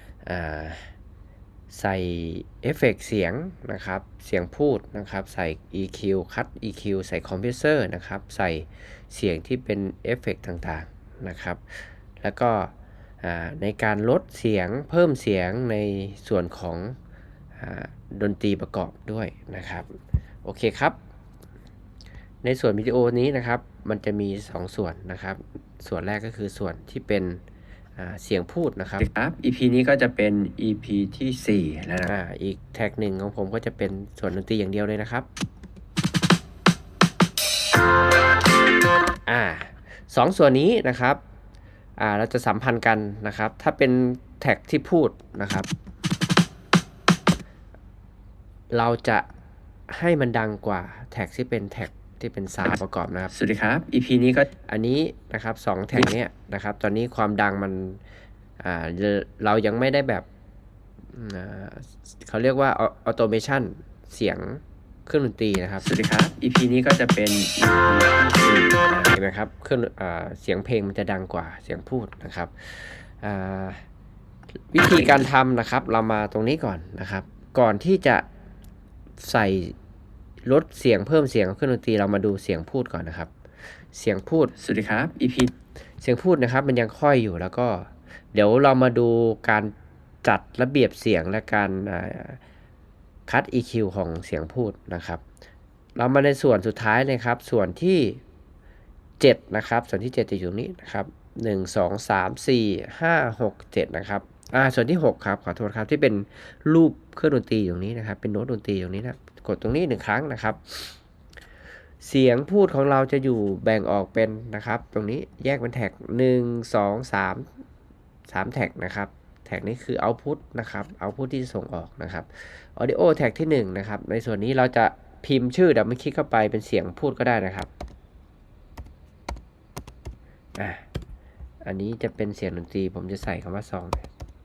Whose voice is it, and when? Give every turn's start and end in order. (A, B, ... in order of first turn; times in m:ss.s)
0:00.2-0:00.9 A
0:01.7-0:17.0 A
0:17.6-0:19.9 A
0:20.4-0:21.0 A
0:22.4-0:27.4 A
0:28.0-0:29.0 A
0:29.0-0:32.1 B
0:32.0-0:35.3 A
0:39.3-0:41.2 A
0:42.0-0:45.7 A
0:48.7-0:49.2 A
0:49.9-0:53.3 A
0:53.3-0:54.5 B
0:54.6-0:58.0 A
0:58.6-1:00.2 A
1:01.1-1:05.8 A
1:05.8-1:09.0 B
1:09.0-1:13.8 A
1:14.7-1:18.2 A
1:19.2-1:19.7 A
1:20.4-1:23.3 A
1:23.9-1:24.5 A
1:24.6-1:25.5 B
1:26.0-1:29.7 A
1:30.2-1:32.4 A
1:33.3-1:35.2 A
1:36.0-1:38.2 A
1:39.2-1:50.9 A
1:52.0-1:57.5 A
1:58.3-2:07.7 A
2:10.6-2:10.8 A
2:11.6-2:14.0 A